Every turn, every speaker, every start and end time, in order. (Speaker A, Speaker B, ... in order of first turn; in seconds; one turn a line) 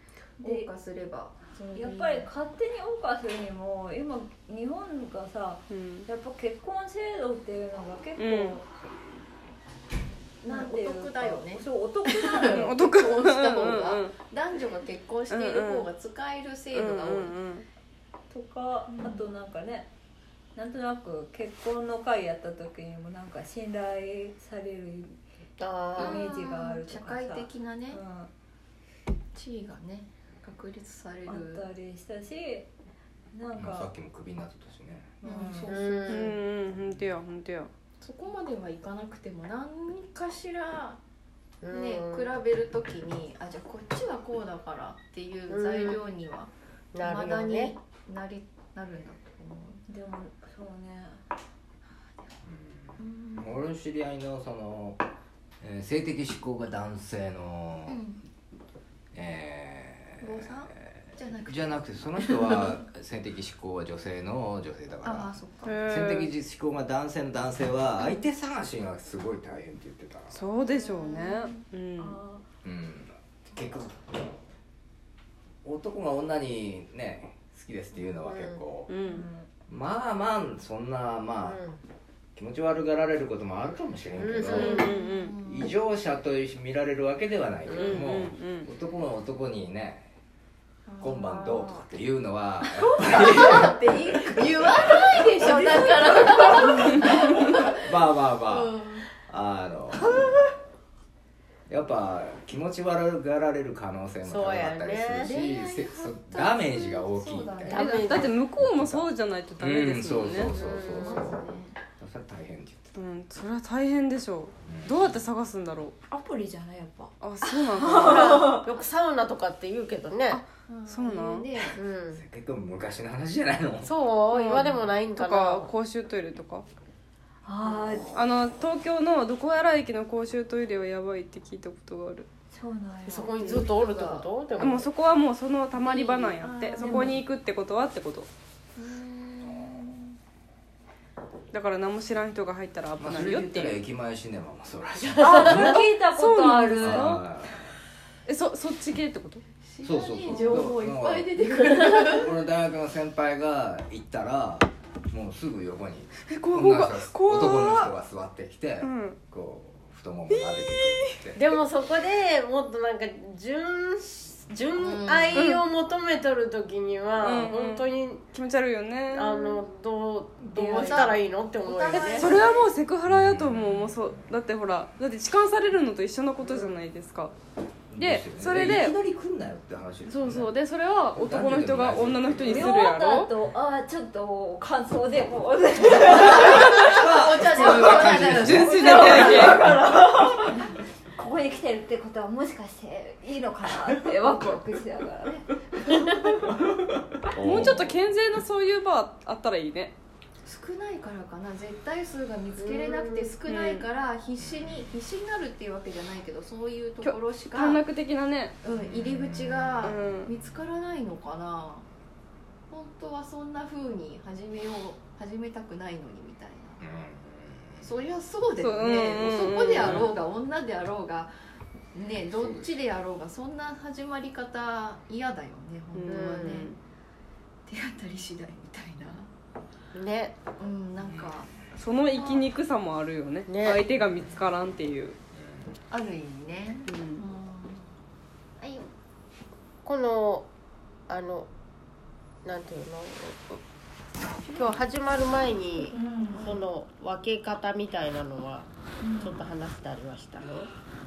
Speaker A: 0.4-0.7
Speaker B: 0.4-2.3
Speaker A: 1.7-8.7
Speaker C: 5.7-6.1
Speaker C: 8.2-8.6
Speaker B: 10.4-17.4
Speaker A: 10.5-12.7
Speaker C: 12.5-14.1
Speaker C: 15.3-15.9
Speaker C: 16.7-17.6
Speaker A: 18.3-19.9
Speaker B: 18.9-19.2
Speaker A: 20.6-25.2
Speaker D: 25.6-26.2
Speaker A: 25.9-28.3
Speaker B: 26.0-28.0
Speaker B: 29.3-31.6
Speaker A: 31.2-32.7
Speaker A: 33.3-33.9
Speaker E: 33.5-35.1
Speaker A: 35.2-36.1
Speaker B: 35.2-36.3
Speaker D: 35.6-36.4
Speaker C: 36.1-37.7
Speaker B: 38.0-41.0
Speaker D: 41.6-42.3
Speaker B: 41.7-49.8
Speaker D: 45.5-46.0
Speaker D: 46.9-47.7
Speaker A: 49.9-51.2
Speaker E: 52.4-55.0
Speaker B: 53.0-53.5
Speaker E: 55.6-58.0
Speaker B: 57.9-58.2
Speaker E: 59.1-70.4
Speaker B: 60.2-62.8
Speaker B: 65.0-65.8
Speaker C: 65.6-66.3
Speaker C: 70.3-72.2
Speaker B: 70.6-71.6
Speaker A: 72.0-72.4
Speaker E: 72.6-74.3
Speaker E: 75.6-78.9
Speaker D: 78.2-78.6
Speaker C: 78.9-79.2
Speaker A: 79.0-79.5
Speaker E: 79.7-81.6
Speaker D: 81.4-81.8
Speaker E: 82.3-84.8
Speaker D: 84.2-85.0
Speaker C: 84.5-85.3
Speaker B: 84.6-85.7
Speaker E: 85.4-90.1
Speaker D: 87.7-88.0
Speaker C: 87.7-88.7
Speaker B: 90.9-91.8
Speaker E: 91.0-93.8
Speaker B: 93.0-97.9
Speaker A: 95.4-97.1
Speaker E: 97.8-100.5
Speaker B: 98.5-99.1
Speaker E: 101.7-108.0
Speaker D: 104.2-105.3
Speaker B: 105.2-108.4
Speaker D: 107.6-108.3
Speaker C: 108.0-110.5
Speaker E: 108.5-111.4
Speaker D: 110.5-111.3
Speaker B: 110.6-111.8
Speaker E: 112.0-113.0
Speaker C: 112.9-116.0
Speaker E: 114.7-115.2
Speaker A: 116.1-116.6
Speaker B: 116.6-117.0
Speaker C: 117.2-118.6
Speaker A: 117.5-118.7
Speaker D: 117.9-120.4
Speaker C: 120.3-121.5
Speaker B: 120.7-121.8
Speaker D: 121.7-122.2
Speaker E: 122.1-123.9
Speaker D: 123.8-125.7
Speaker C: 124.3-126.7
Speaker A: 127.4-128.2
Speaker C: 128.1-132.3
Speaker A: 132.5-133.6
Speaker D: 133.0-134.9
Speaker B: 133.4-134.3
Speaker C: 134.6-138.3
Speaker B: 135.7-137.2
Speaker A: 136.8-137.2
Speaker B: 138.8-140.1
Speaker E: 139.4-139.8
Speaker C: 141.5-143.8
Speaker E: 143.0-145.8
Speaker D: 145.1-145.6
Speaker C: 145.2-147.2
Speaker A: 145.2-147.2
Speaker E: 146.8-147.7
Speaker C: 148.2-149.4
Speaker B: 149.6-152.3
Speaker E: 149.8-161.4
Speaker D: 151.5-152.2
Speaker C: 156.3-157.9
Speaker C: 158.8-159.2
Speaker C: 160.3-161.1
Speaker D: 161.3-168.2
Speaker B: 164.7-165.4
Speaker C: 165.3-165.6
Speaker C: 167.2-169.6
Speaker D: 169.1-172.4
Speaker A: 170.4-171.2
Speaker B: 170.7-172.7
Speaker A: 171.8-172.5
Speaker C: 171.9-177.3
Speaker E: 173.1-174.3
Speaker E: 177.9-180.5
Speaker C: 178.0-178.9
Speaker C: 180.1-183.3
Speaker E: 181.1-182.9
Speaker A: 182.4-190.7
Speaker E: 186.0-189.6
Speaker B: 186.1-189.6
Speaker C: 188.1-189.6
Speaker A: 191.2-196.6
Speaker E: 197.2-198.0
Speaker C: 197.4-199.9
Speaker B: 200.4-207.8
Speaker D: 202.6-203.3
Speaker C: 203.4-203.8
Speaker E: 204.4-204.9
Speaker C: 207.0-208.5
Speaker B: 208.6-211.8
Speaker E: 208.6-210.0
Speaker C: 209.8-210.3
Speaker B: 212.7-216.8
Speaker E: 216.8-217.9
Speaker B: 217.8-221.3
Speaker C: 218.6-220.1
Speaker E: 219.8-220.1
Speaker B: 221.9-226.7
Speaker E: 222.2-222.7
Speaker C: 225.9-226.8
Speaker D: 226.1-226.7
Speaker B: 227.7-229.3
Speaker D: 229.9-230.4
Speaker B: 230.6-231.5
Speaker E: 231.0-231.3
Speaker C: 231.7-235.2
Speaker B: 232.2-232.4
Speaker D: 233.5-233.8
Speaker E: 234.2-234.4
Speaker E: 235.3-235.8
Speaker B: 235.9-237.9
Speaker C: 236.9-237.2
Speaker B: 238.6-238.9
Speaker D: 239.8-240.5
Speaker D: 241.1-241.5
Speaker D: 242.4-243.4
Speaker B: 244.4-244.9
Speaker D: 244.5-250.7
Speaker A: 245.9-246.5
Speaker A: 249.0-249.4